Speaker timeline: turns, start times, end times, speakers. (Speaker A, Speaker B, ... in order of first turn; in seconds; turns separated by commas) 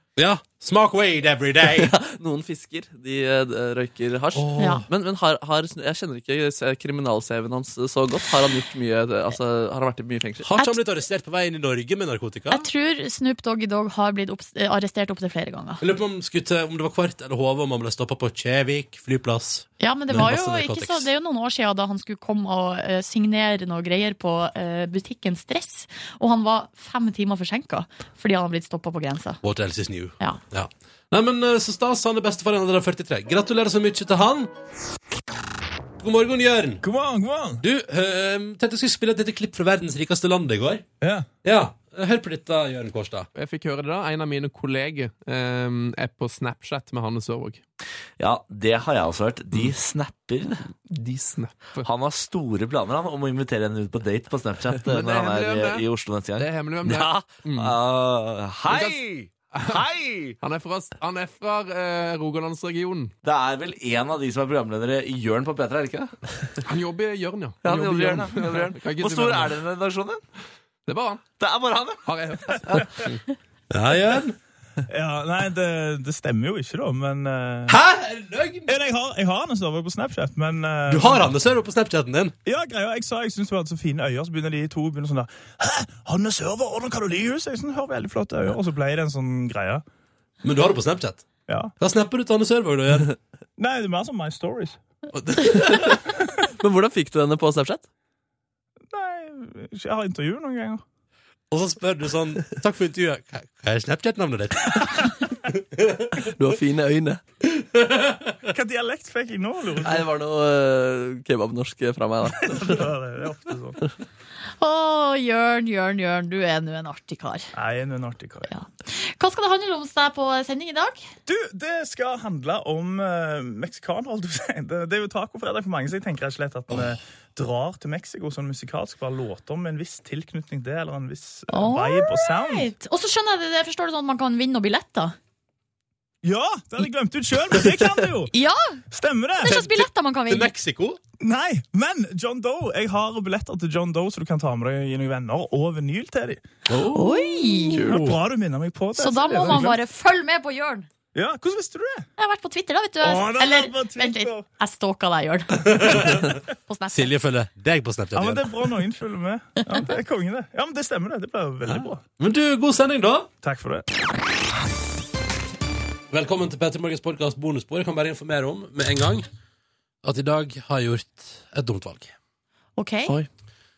Speaker A: 0.2-1.9, Speaker B: 1.8-10.5, Speaker A: 4.3-4.9, Speaker C: 4.6-4.8, Speaker A: 10.4-12.7, Speaker C: 12.5-15.8, Speaker A: 15.8-21.1, Speaker C: 19.8-29.4, Speaker A: 29.4-34.5, Speaker A: 36.0-36.8, Speaker D: 36.8-37.6, Speaker A: 37.6-40.8, Speaker D: 41.0-41.3, Speaker A: 41.4-43.3, Speaker E: 43.3-47.6, Speaker F: 48.2-50.6, Speaker E: 50.9-51.9, Speaker F: 51.8-60.4, Speaker E: 54.8-55.9, Speaker E: 56.4-57.8, Speaker E: 58.7-59.0, Speaker E: 59.5-59.8, Speaker E: 60.4-63.1, Speaker F: 63.2-66.1, Speaker E: 66.7-69.6, Speaker F: 67.6-70.2, Speaker E: 70.9-71.2, Speaker F: 71.4-72.0, Speaker E: 72.0-73.2, Speaker A: 73.7-74.4, Speaker D: 74.9-77.8, Speaker A: 77.7-78.8, Speaker D: 78.7-81.3, Speaker A: 80.9-82.3, Speaker D: 82.5-89.8, Speaker A: 90.4-91.2, Speaker D: 91.5-91.7, Speaker A: 91.8-93.2, Speaker D: 93.6-94.8, Speaker A: 95.1-96.0, Speaker B: 95.6-96.0, Speaker B: 96.6-97.9, Speaker D: 98.9-100.8, Speaker A: 101.5-106.2, Speaker B: 106.2-107.2, Speaker A: 107.5-108.3, Speaker D: 108.5-110.1, Speaker B: 109.8-112.8, Speaker D: 112.4-113.8, Speaker C: 114.6-117.5, Speaker D: 117.5-118.5, Speaker C: 118.5-121.1, Speaker D: 121.3-132.7, Speaker C: 131.5-135.2, Speaker D: 136.2-138.3, Speaker C: 138.3-138.8, Speaker D: 138.9-139.7, Speaker C: 139.4-140.5, Speaker A: 140.3-141.0, Speaker D: 141.2-146.5, Speaker A: 146.7-148.2, Speaker C: 146.9-147.8, Speaker B: 147.7-148.0, Speaker D: 147.9-149.8, Speaker C: 149.0-150.9, Speaker D: 151.2-152.1, Speaker C: 152.2-157.1, Speaker D: 153.0-154.5, Speaker A: 155.6-156.3, Speaker A: 156.9-158.6, Speaker D: 158.1-162.0, Speaker A: 161.7-163.3, Speaker D: 163.4-163.9, Speaker A: 166.1-169.3, Speaker A: 170.0-172.1, Speaker C: 172.8-173.2